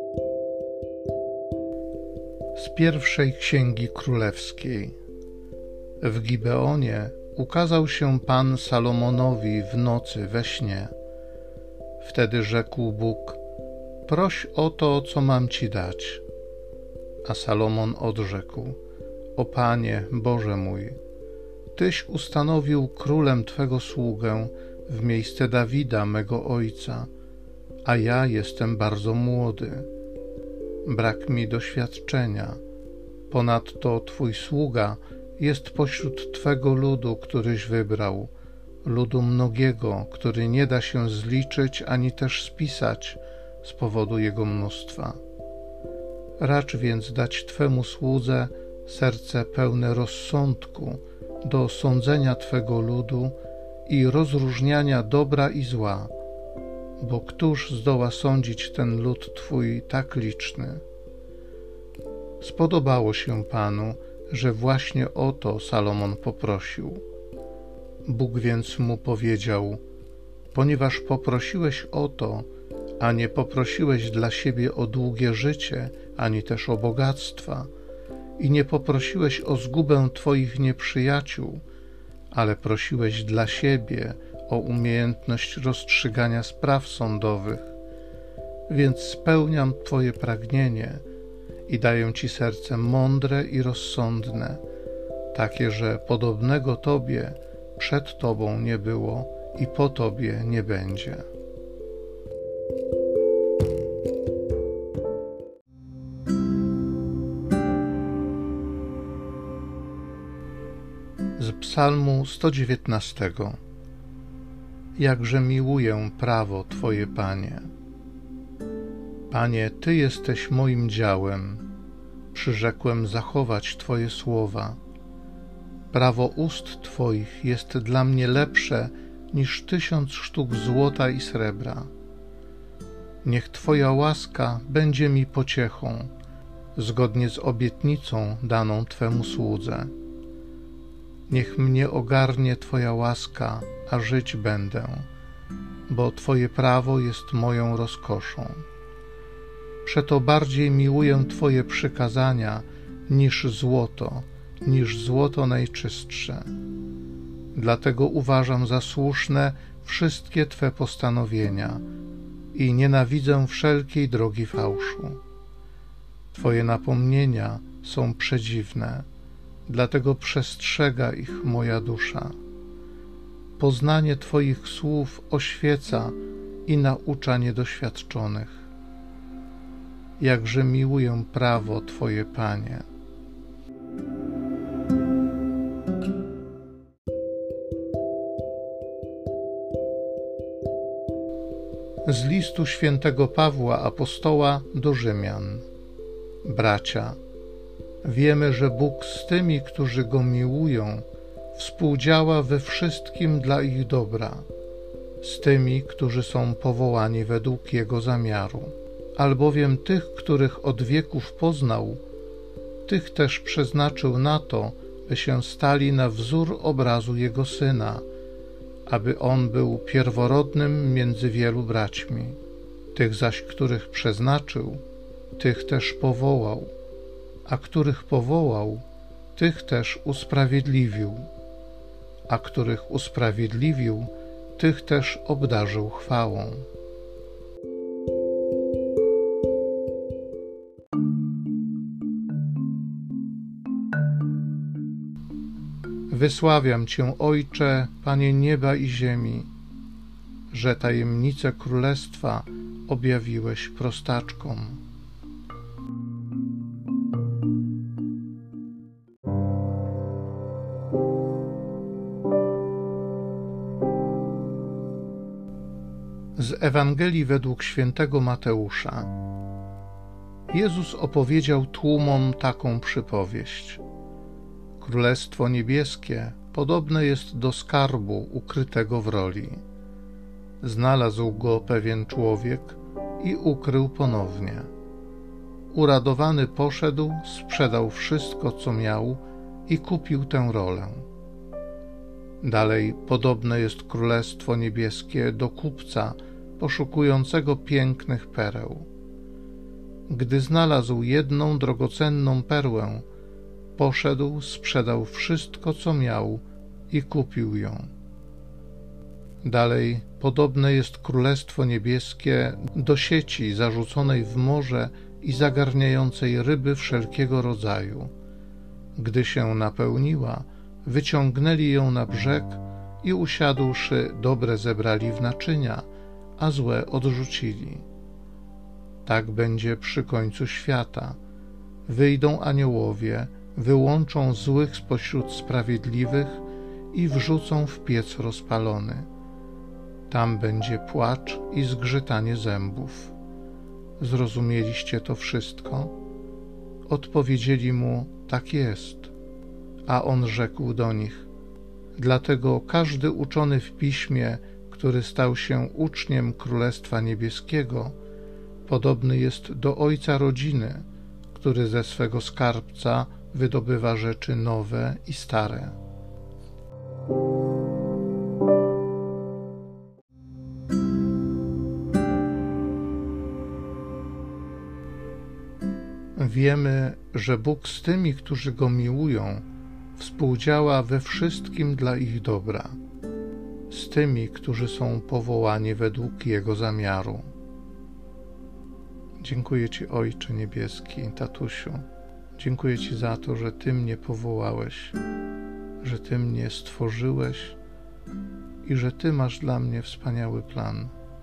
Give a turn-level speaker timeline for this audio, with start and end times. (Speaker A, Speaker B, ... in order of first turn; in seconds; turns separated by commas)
Speaker A: 2.5-5.0, Speaker A: 6.0-10.9, Speaker A: 12.0-13.4, Speaker A: 14.1-16.2, Speaker A: 17.2-18.8, Speaker A: 19.4-21.0, Speaker A: 21.7-27.1, Speaker A: 27.8-29.9, Speaker A: 30.8-32.6, Speaker A: 33.3-38.3, Speaker A: 38.8-45.2, Speaker A: 46.4-56.1, Speaker A: 57.0-60.8, Speaker A: 62.4-67.0, Speaker A: 68.0-69.8, Speaker A: 70.5-72.5, Speaker A: 73.0-77.7, Speaker A: 78.4-81.6, Speaker A: 82.3-87.7, Speaker A: 88.7-91.0, Speaker A: 91.7-94.6, Speaker A: 95.3-101.3, Speaker A: 111.4-113.6, Speaker A: 115.0-117.7, Speaker A: 119.3-121.6, Speaker A: 122.3-124.8, Speaker A: 125.9-131.9, Speaker A: 133.2-136.1, Speaker A: 136.7-139.9, Speaker A: 141.3-145.1, Speaker A: 145.9-148.6, Speaker A: 149.8-156.5, Speaker A: 157.5-161.8, Speaker A: 162.5-165.2, Speaker A: 166.3-169.1, Speaker A: 169.7-172.3, Speaker A: 173.6-178.7, Speaker A: 180.2-182.8, Speaker A: 192.0-195.7, Speaker A: 196.4-197.2, Speaker A: 198.0-204.4, Speaker A: 205.2-212.0, Speaker A: 212.8-218.1, Speaker A: 218.8-222.4, Speaker A: 222.9-224.8, Speaker A: 225.4-226.7, Speaker A: 227.4-231.3, Speaker A: 232.3-236.7, Speaker A: 246.1-249.5, Speaker A: 250.5-254.8, Speaker A: 266.4-269.1, Speaker A: 270.5-273.8, Speaker A: 274.8-279.6, Speaker A: 280.6-284.7, Speaker A: 285.7-291.1, Speaker A: 292.4-298.9, Speaker A: 300.1-303.1, Speaker A: 303.8-307.9, Speaker A: 309.4-318.1, Speaker A: 318.9-325.9, Speaker A: 326.4-327.8, Speaker A: 329.0-331.2, Speaker A: 331.9-339.1, Speaker A: 340.1-343.1, Speaker A: 344.0-345.9, Speaker A: 346.9-349.1, Speaker A: 349.9-351.3, Speaker A: 351.9-358.0, Speaker A: 358.6-365.8, Speaker A: 376.1-379.4, Speaker A: 379.9-382.8, Speaker A: 383.7-387.3, Speaker A: 389.2-395.0, Speaker A: 395.8-397.6, Speaker A: 398.6-400.9